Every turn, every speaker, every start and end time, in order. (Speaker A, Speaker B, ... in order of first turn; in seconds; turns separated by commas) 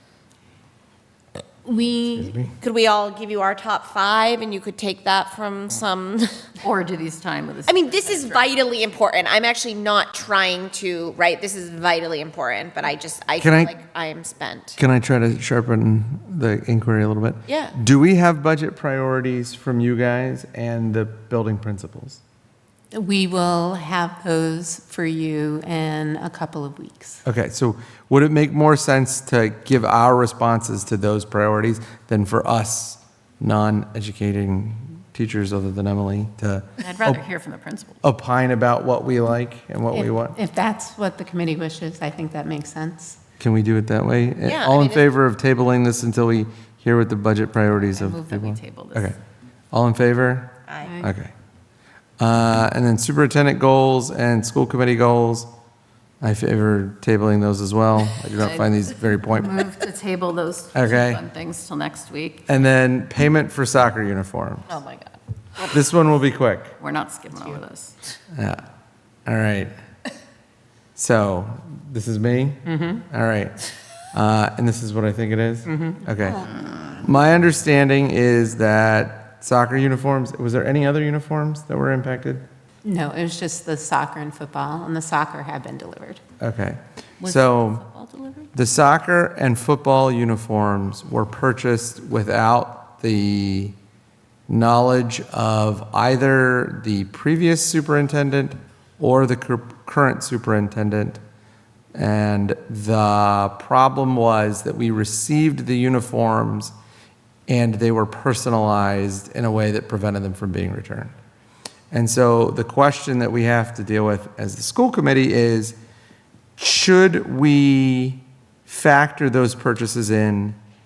Speaker A: 1.6-2.3, Speaker B: 2.0-2.5, Speaker C: 2.6-6.5, Speaker D: 6.6-8.4, Speaker C: 7.7-14.8, Speaker B: 13.4-13.7, Speaker B: 14.8-22.2, Speaker C: 17.5-17.7, Speaker A: 22.9-27.2, Speaker B: 27.2-37.2, Speaker D: 36.8-38.0, Speaker B: 38.0-40.4, Speaker A: 39.9-43.2, Speaker B: 43.4-49.2, Speaker C: 44.4-45.1, Speaker D: 47.8-49.1, Speaker B: 49.7-51.3, Speaker C: 50.7-51.0, Speaker B: 52.2-55.5, Speaker B: 56.2-59.6, Speaker D: 58.3-62.5, Speaker B: 60.7-61.2, Speaker B: 62.5-64.7, Speaker D: 64.7-65.7, Speaker B: 65.7-66.7, Speaker D: 66.8-67.9, Speaker B: 68.3-68.6, Speaker B: 69.3-69.7, Speaker B: 71.0-73.5, Speaker A: 72.7-73.0, Speaker B: 74.1-76.5, Speaker A: 75.7-76.0, Speaker D: 76.3-77.0, Speaker B: 77.0-82.4, Speaker A: 82.8-86.2, Speaker B: 86.4-87.8, Speaker D: 87.2-88.5, Speaker B: 88.5-93.7, Speaker B: 94.5-101.2, Speaker B: 101.9-106.7, Speaker B: 107.5-111.1, Speaker B: 111.9-115.8, Speaker B: 116.6-120.6